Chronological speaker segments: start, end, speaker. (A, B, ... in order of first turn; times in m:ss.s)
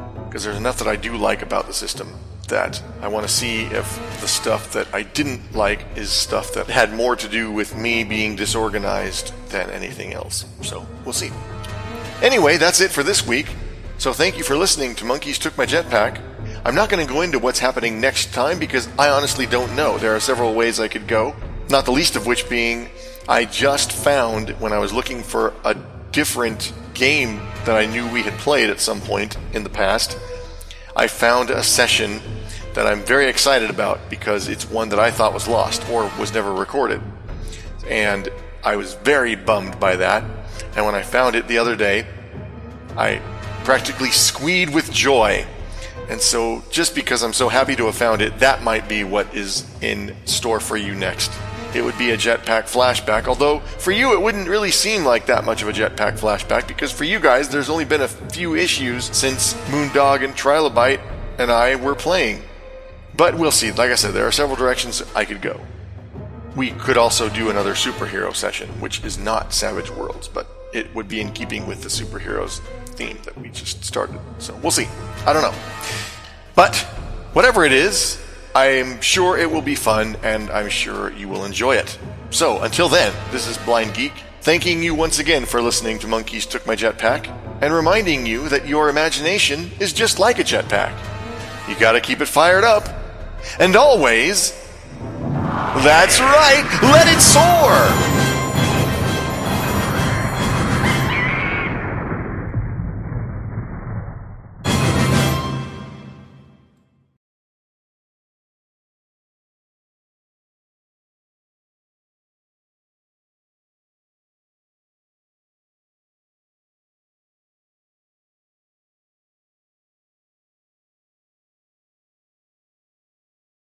0:00.3-0:11.3 A
0:12.2-0:30.2 A
0:30.9-0:37.0 A
0:37.8-0:42.1 A
0:43.0-0:45.5 A
0:46.1-1:02.4 A
1:03.1-1:05.6 A
1:06.5-1:15.6 A
1:16.6-1:31.0 A
1:31.7-1:33.0 A
1:33.6-1:34.6 A
1:35.7-1:38.0 A